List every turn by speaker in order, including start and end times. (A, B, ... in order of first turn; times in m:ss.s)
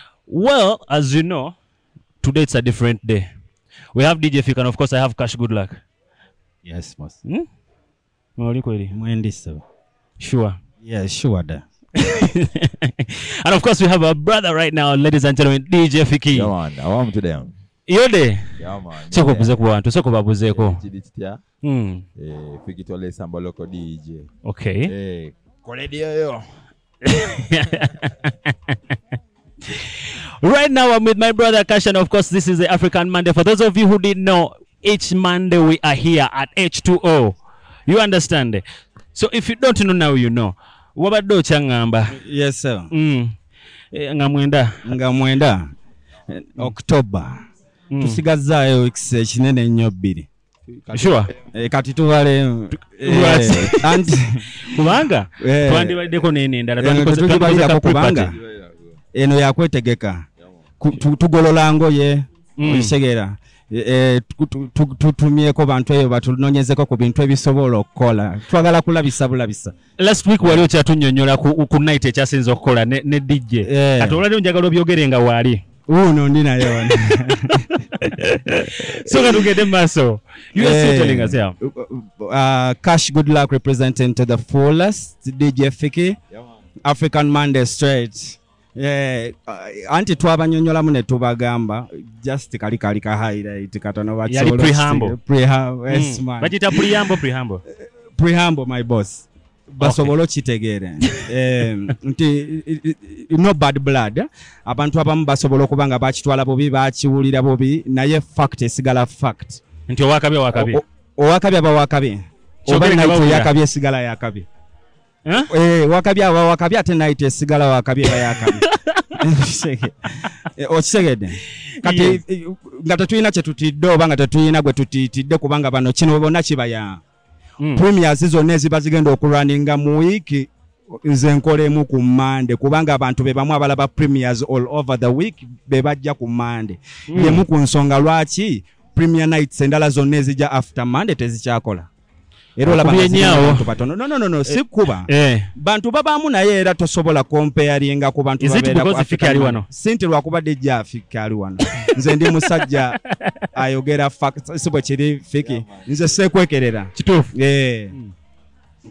0:00.3-0:01.6 A
0:02.2-0:03.3 A
0:03.9-0:05.8 A
0:06.6-0:07.2 B
0:08.4-0:08.9 A
0:08.9-0:09.6 B
0:10.2-0:10.6 A
0:10.8-0:11.6 B
0:12.0-0:16.5 A
0:16.3-0:17.5 C
0:17.9-0:20.8 A
0:18.6-0:19.6 C
0:20.5-0:21.4 C
0:21.6-0:22.0 A
0:22.2-0:24.3 C
0:24.4-0:24.9 A
0:24.9-0:26.5 C
0:27.0-0:28.8 A
0:29.7-0:37.3 A
0:37.9-0:38.6 A
0:39.1-0:42.2 A
0:42.2-0:42.9 B
0:42.9-0:43.3 A
0:43.9-0:44.8 A
0:44.8-0:45.7 B
0:46.3-0:47.3 B
0:47.9-0:48.2 A
0:48.0-0:50.3 B
0:50.7-0:51.5 C
0:50.9-0:51.3 A
0:51.5-0:54.8 B
0:53.0-0:54.0 A
0:54.6-0:58.3 A
0:55.4-0:56.1 B
0:56.8-0:58.4 B
0:58.4-0:58.8 C
0:59.2-1:00.2 B
1:00.8-1:09.7 B
1:02.6-1:02.9 A
1:10.0-1:15.6 A
1:10.4-1:10.7 B
1:13.6-1:14.2 B
1:15.9-1:17.9 B
1:18.0-1:21.5 A
1:19.1-1:19.5 B
1:20.6-1:26.2 B
1:26.8-1:37.0 B
1:34.3-1:35.2 A
1:35.9-1:37.6 A
1:38.2-1:49.6 B
1:39.8-1:40.1 A
1:49.9-1:50.8 A
1:50.5-1:54.5 B
1:52.7-1:53.5 A
1:55.5-1:58.6 B
1:58.5-1:59.2 A
1:59.2-2:07.0 B
2:01.8-2:02.2 A
2:07.7-2:10.5 B
2:11.0-2:21.9 B
2:17.1-2:17.4 A
2:22.6-2:33.0 B
2:22.7-2:23.7 A
2:24.5-2:25.5 A
2:28.4-2:29.7 A
2:31.7-2:32.6 A
2:33.1-2:33.5 A
2:33.6-2:37.9 B
2:35.4-2:36.0 C
2:37.0-2:37.3 A